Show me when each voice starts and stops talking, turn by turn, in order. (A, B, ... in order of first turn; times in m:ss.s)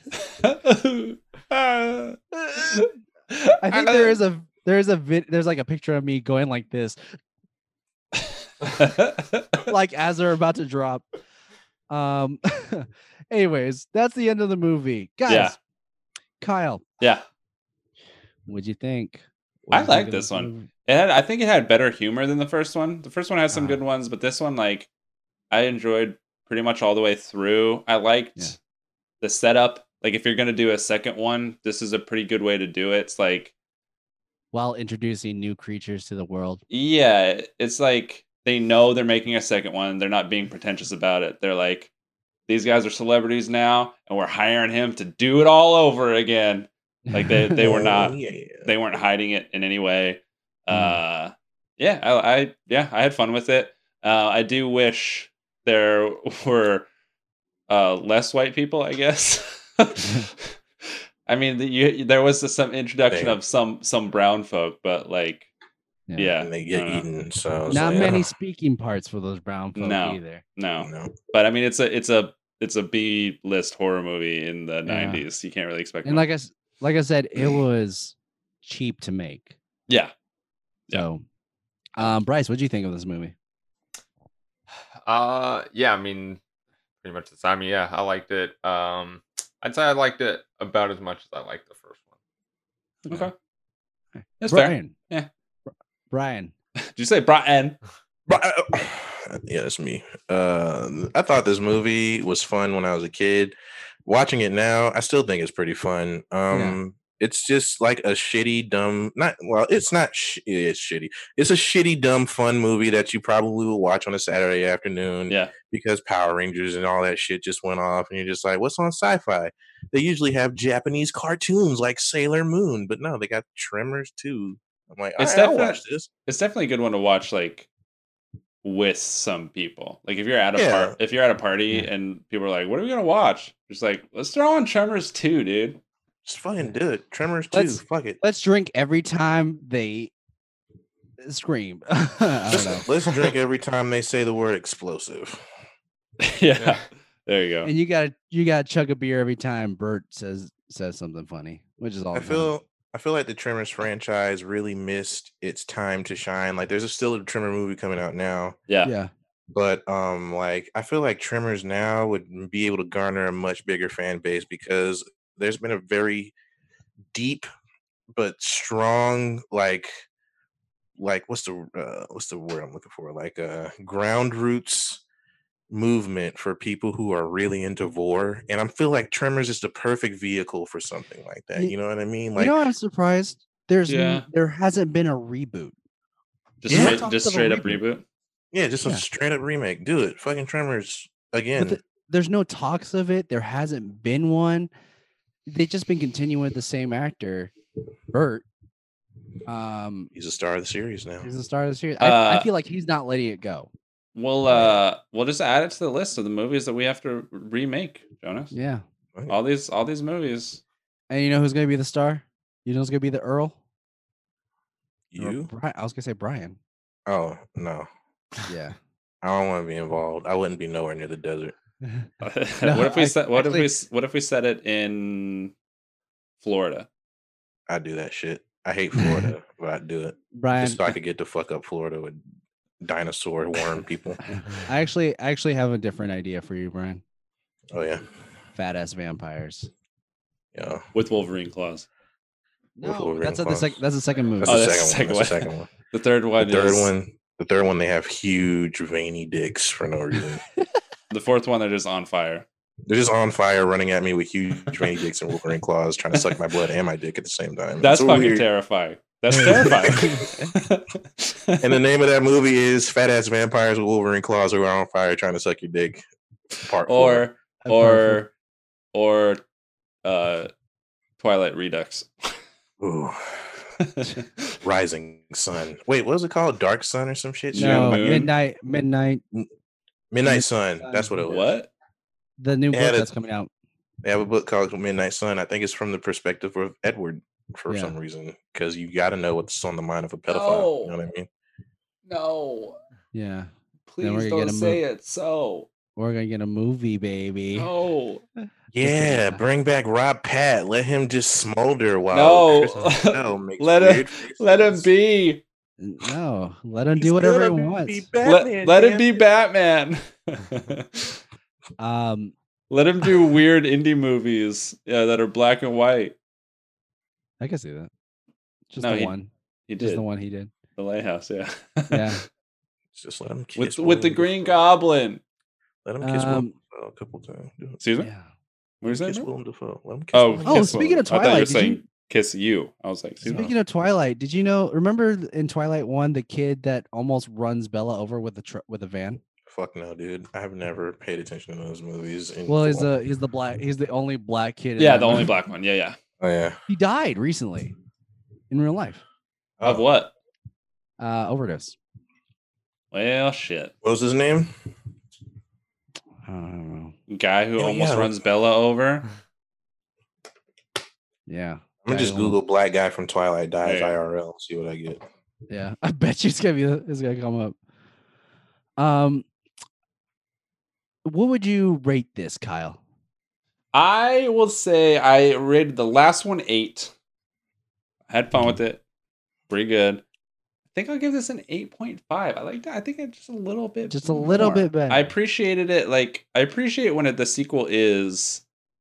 0:00.4-0:04.2 A
0:02.3-0:02.9 B
0:03.6-0:07.0 B
0:08.6-0:09.6 A
0:09.7-0:11.0 B
0:11.9-0:15.6 B
0:15.3-0:15.6 A
0:16.4-0:16.8 B
0:18.5-0:20.7 B
0:19.7-0:24.9 A
0:23.5-0:23.8 B
0:25.5-0:28.5 A
0:29.2-0:33.5 A
0:34.5-0:36.6 B
0:36.7-0:41.9 A
0:42.5-0:56.9 A
0:47.1-0:47.8 B
0:47.6-0:48.7 C
0:50.7-0:51.0 B
0:57.7-1:00.5 A
1:00.0-1:00.3 B
1:01.3-1:05.5 A
1:03.1-1:03.4 C
1:06.2-1:07.0 A
1:06.4-1:08.3 C
1:07.7-1:10.4 B
1:09.8-1:16.2 A
1:10.8-1:11.1 C
1:14.8-1:15.2 B
1:16.0-1:19.5 B
1:20.9-1:21.2 B
1:22.0-1:23.3 B
1:25.0-1:26.4 D
1:27.0-1:32.0 D
1:33.0-1:33.3 A
1:34.2-1:34.9 B
1:34.4-1:35.3 A
1:36.1-1:36.5 B
1:36.9-1:37.8 A
1:38.3-1:43.5 C
1:44.0-2:06.1 C
1:46.5-1:46.8 B
2:05.2-2:07.7 A
2:08.6-2:15.8 A
2:10.6-2:11.0 C
2:16.2-2:18.2 C
2:17.5-2:20.1 B
2:21.2-2:22.8 B
2:22.5-2:25.4 C
2:26.2-2:27.7 A
2:26.6-2:26.8 D
2:27.6-2:32.5 B
2:32.1-2:38.6 C
2:38.8-2:39.1 B
2:39.5-2:46.3 C
2:47.1-2:47.5 C
2:48.1-2:50.0 C
2:51.0-2:55.0 C
2:55.7-3:02.6 C
3:02.4-3:05.7 B
3:03.9-3:04.2 A
3:06.6-3:08.0 A
3:06.6-3:07.8 B
3:06.7-3:07.0 C
3:08.5-3:11.8 C
3:11.6-3:14.7 B
3:15.5-3:17.5 B
3:18.1-3:18.4 B
3:19.4-3:20.1 B
3:20.1-3:21.3 C
3:21.2-3:23.7 B
3:22.0-3:22.5 A
3:24.1-3:28.5 A
3:24.5-3:24.8 C
3:28.5-3:28.8 B
3:29.3-3:30.6 A
3:31.1-3:33.6 B
3:35.1-3:35.5 C
3:35.2-3:36.6 B
3:37.1-3:37.9 C
3:38.5-3:38.8 B
3:39.2-3:41.5 C
3:42.2-3:45.5 A
3:42.6-3:43.7 B
3:46.4-3:46.9 A
3:47.7-3:52.2 C
3:49.0-3:49.3 B
3:50.3-3:50.9 B
3:52.8-3:54.2 C
3:54.3-3:57.0 B
3:57.7-3:58.0 C
3:58.5-3:59.7 B
4:00.5-4:00.8 C
4:00.9-4:01.9 A
4:02.8-4:04.7 B
4:02.8-4:03.8 C
4:04.4-4:05.7 C
4:04.4-4:06.9 A
4:06.4-4:10.4 C
4:11.1-4:12.4 A
4:12.9-4:18.4 C
4:17.8-4:21.7 A
4:19.3-4:20.1 C
4:19.8-4:20.3 B
4:21.6-4:26.0 C
4:26.6-4:27.3 C
4:26.9-4:28.3 A
4:27.6-4:28.2 B
4:28.9-4:29.4 A
4:30.0-4:30.5 A
4:31.2-4:32.1 A
4:32.8-4:33.7 C
4:33.8-4:34.5 A
4:34.6-4:38.3 C
4:37.5-4:38.3 A
4:37.6-4:39.2 B
4:40.1-4:41.5 C
4:40.2-4:41.2 B
4:41.2-4:41.7 A
4:42.4-4:43.5 B
4:42.7-4:43.1 C
4:44.0-4:51.3 C
4:47.7-4:48.0 B
4:50.3-4:51.0 A
4:52.1-4:52.8 A
4:53.1-4:54.8 B
4:53.9-4:55.7 A
4:56.0-4:57.7 B
4:57.5-4:58.2 A
4:58.7-5:04.9 C
4:58.8-4:59.4 B
5:02.1-5:05.4 A
5:05.8-5:08.1 B
5:07.0-5:09.2 C
5:08.2-5:11.2 A
5:11.8-5:12.3 B
5:12.7-5:16.1 A
5:17.4-5:17.9 B
5:18.7-5:20.5 B
5:18.8-5:19.1 A
5:19.7-5:20.0 A
5:20.8-5:22.2 A
5:21.9-5:22.2 B
5:22.9-5:24.6 C
5:23.6-5:25.2 A
5:25.8-5:27.8 C
5:26.0-5:26.6 B
5:27.8-5:28.1 A
5:28.0-5:28.3 B
5:28.8-5:29.3 A
5:28.8-5:31.0 C
5:30.1-5:33.5 A
5:30.4-5:31.8 B
5:33.3-5:39.2 B
5:39.5-5:42.9 C
5:42.5-5:45.3 B
5:44.8-5:46.0 A
5:46.2-5:46.6 C
5:46.7-5:47.7 B
5:48.5-5:49.0 B
5:49.6-5:50.1 A
5:51.0-5:51.8 B
5:52.9-5:53.7 A
5:53.8-5:54.5 C
5:56.2-5:56.9 B
5:57.1-5:59.1 A
5:57.6-5:58.2 C
6:01.3-6:02.4 B
6:01.8-6:05.0 C
6:03.6-6:04.0 A
6:05.5-6:07.6 B
6:08.8-6:09.2 B
6:11.0-6:12.8 B
6:13.7-6:16.9 A
6:18.1-6:18.8 A
6:19.5-6:20.0 A
6:20.7-6:28.4 A
6:23.9-6:25.1 B